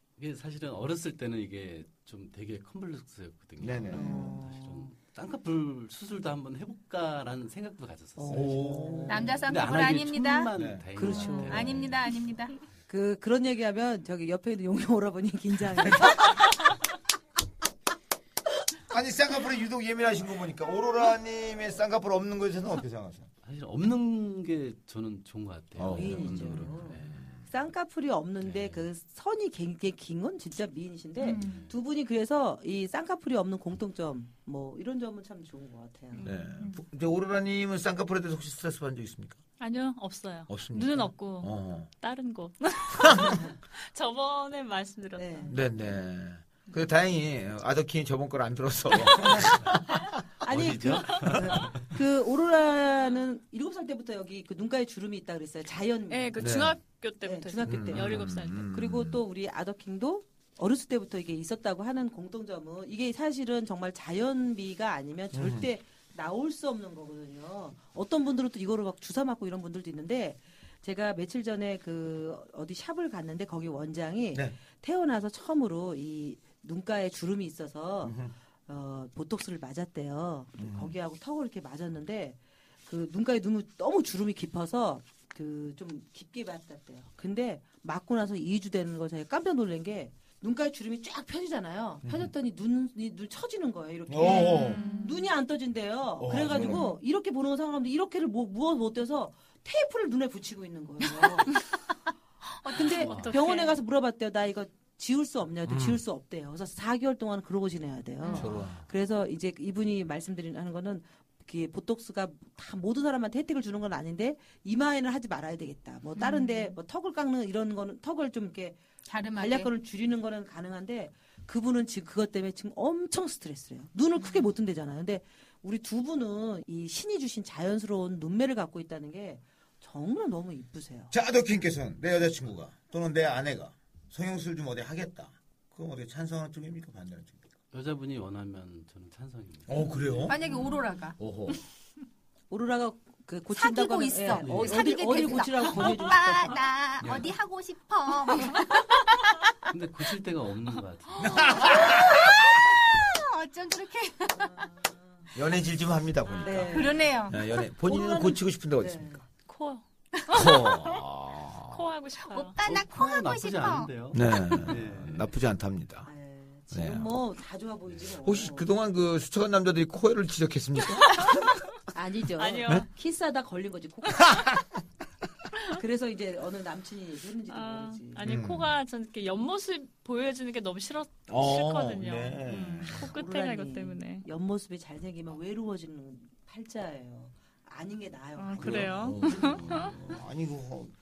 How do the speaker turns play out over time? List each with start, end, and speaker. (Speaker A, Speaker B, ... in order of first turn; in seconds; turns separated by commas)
Speaker A: 0.2-8.7, Speaker B: 3.6-4.4, Speaker C: 3.9-4.9, Speaker C: 8.2-9.4, Speaker B: 8.3-9.4, Speaker D: 9.1-10.5, Speaker A: 9.3-12.1, Speaker B: 10.6-11.2, Speaker C: 10.9-11.7, Speaker D: 11.1-12.6, Speaker C: 12.9-16.4, Speaker B: 15.8-16.3, Speaker B: 18.9-23.3, Speaker A: 23.4-27.1, Speaker B: 25.8-27.3, Speaker C: 25.9-36.3, Speaker A: 28.4-28.9, Speaker D: 31.2-31.6, Speaker A: 31.3-31.7, Speaker E: 36.1-36.8, Speaker B: 36.2-39.4, Speaker E: 39.6-45.6, Speaker B: 40.5-41.9, Speaker B: 42.9-43.4, Speaker C: 45.2-45.5, Speaker B: 45.5-51.5, Speaker C: 49.2-49.7, Speaker C: 50.4-56.5, Speaker A: 50.5-51.9, Speaker E: 56.1-58.6, Speaker B: 56.4-56.8, Speaker C: 57.2-101.5, Speaker B: 57.6-59.2, Speaker B: 65.3-65.7, Speaker B: 78.0-78.3, Speaker B: 80.6-80.9, Speaker B: 92.0-92.3, Speaker B: 94.1-94.8, Speaker E: 94.2-95.3, Speaker D: 94.3-94.8, Speaker B: 96.2-96.9, Speaker D: 102.6-103.4, Speaker C: 102.7-118.8, Speaker E: 102.9-103.8, Speaker A: 103.0-103.3, Speaker B: 105.7-106.0, Speaker B: 108.3-108.8, Speaker D: 116.2-116.7, Speaker D: 119.0-119.7, Speaker C: 119.3-131.1, Speaker B: 131.1-137.5, Speaker A: 137.7-140.4, Speaker B: 139.7-141.6, Speaker D: 140.3-141.2, Speaker C: 142.5-146.6, Speaker D: 143.5-149.0, Speaker A: 144.4-144.8, Speaker A: 147.0-147.3, Speaker A: 149.7-151.7, Speaker D: 151.2-154.7, Speaker B: 151.2-152.5, Speaker C: 154.4-155.0, Speaker B: 155.3-159.2, Speaker C: 156.4-157.1, Speaker D: 156.6-157.4, Speaker C: 157.8-159.2, Speaker E: 159.4-160.6, Speaker B: 160.3-161.9, Speaker D: 160.3-161.0, Speaker E: 161.7-162.6, Speaker D: 162.2-163.9, Speaker A: 162.6-165.3, Speaker B: 164.1-166.1, Speaker C: 166.1-168.7, Speaker B: 166.7-167.1, Speaker B: 168.2-171.2, Speaker C: 171.9-174.5, Speaker E: 172.4-172.9, Speaker B: 174.2-174.8, Speaker C: 175.7-178.2, Speaker E: 177.5-184.2, Speaker B: 178.2-178.7, Speaker B: 181.3-183.1, Speaker C: 183.0-190.2, Speaker E: 188.4-189.9, Speaker B: 188.6-190.9